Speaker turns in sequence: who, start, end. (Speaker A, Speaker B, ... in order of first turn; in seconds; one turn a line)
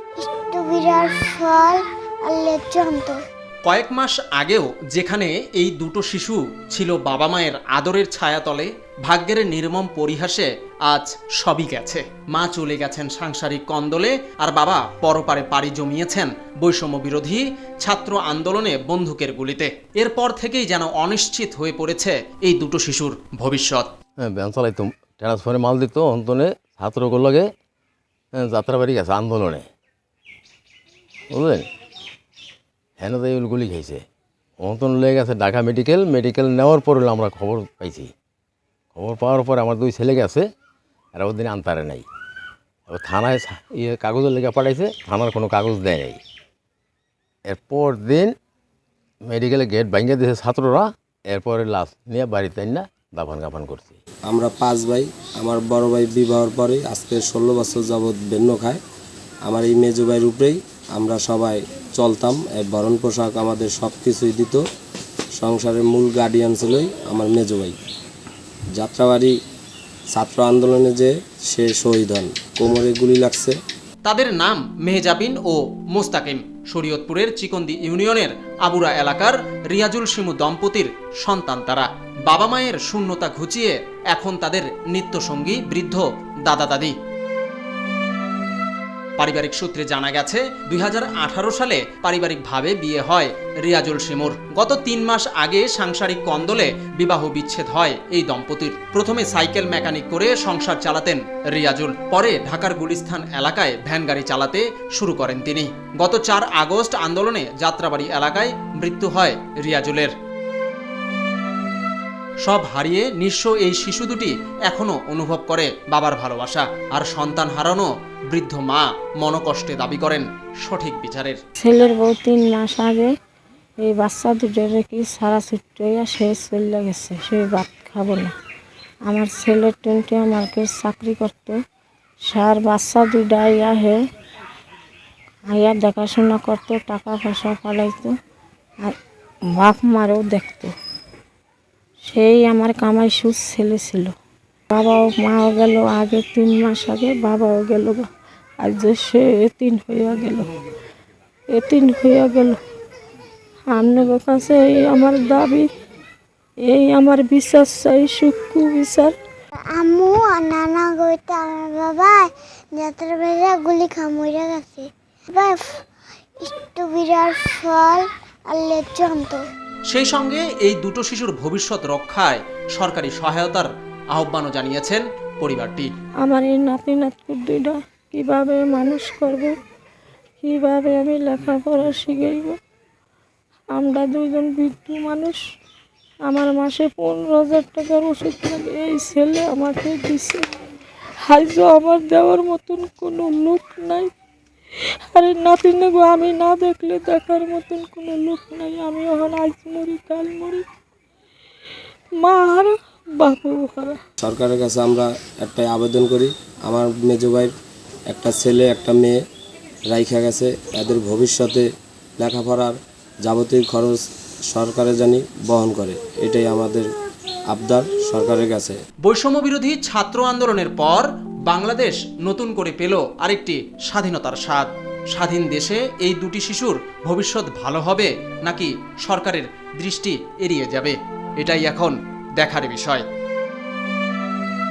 Speaker A: 0.2-3.2
Speaker B: 3.7-23.9
Speaker C: 24.2-27.5
Speaker C: 28.4-29.6
Speaker C: 31.3-31.7
Speaker C: 33.0-34.0
Speaker C: 34.6-38.1
Speaker C: 39.0-40.5
Speaker C: 41.1-42.0
Speaker C: 42.9-46.2
Speaker C: 47.5-48.3
Speaker C: 49.3-54.0
Speaker D: 54.3-58.8
Speaker D: 59.5-64.6
Speaker D: 65.4-67.8
Speaker D: 68.7-69.4
Speaker D: 70.1-73.6
Speaker B: 74.1-86.9
Speaker B: 89.2-110.1
Speaker B: 112.5-121.4
Speaker E: 121.6-123.1
Speaker E: 123.8-128.3
Speaker E: 129.1-131.6
Speaker E: 132.2-134.0
Speaker E: 135.5-138.1
Speaker E: 139.6-140.7
Speaker E: 142.1-144.1
Speaker E: 144.7-148.1
Speaker E: 148.6-150.5
Speaker E: 151.5-152.6
Speaker E: 153.7-155.7
Speaker E: 156.7-159.1
Speaker A: 159.7-165.7
Speaker A: 166.4-169.4
Speaker B: 169.9-175.9
Speaker E: 176.2-179.5
Speaker E: 180.4-182.6
Speaker E: 183.7-185.4
Speaker E: 186.2-190.4
Speaker E: 191.2-194.1
Speaker E: 195.1-200.6
Speaker E: 202.2-204.0
Speaker D: 204.2-207.5
Speaker D: 208.1-209.2
Speaker D: 209.9-211.7
Speaker D: 212.2-216.9
Speaker D: 217.5-218.8
Speaker B: 219.0-233.1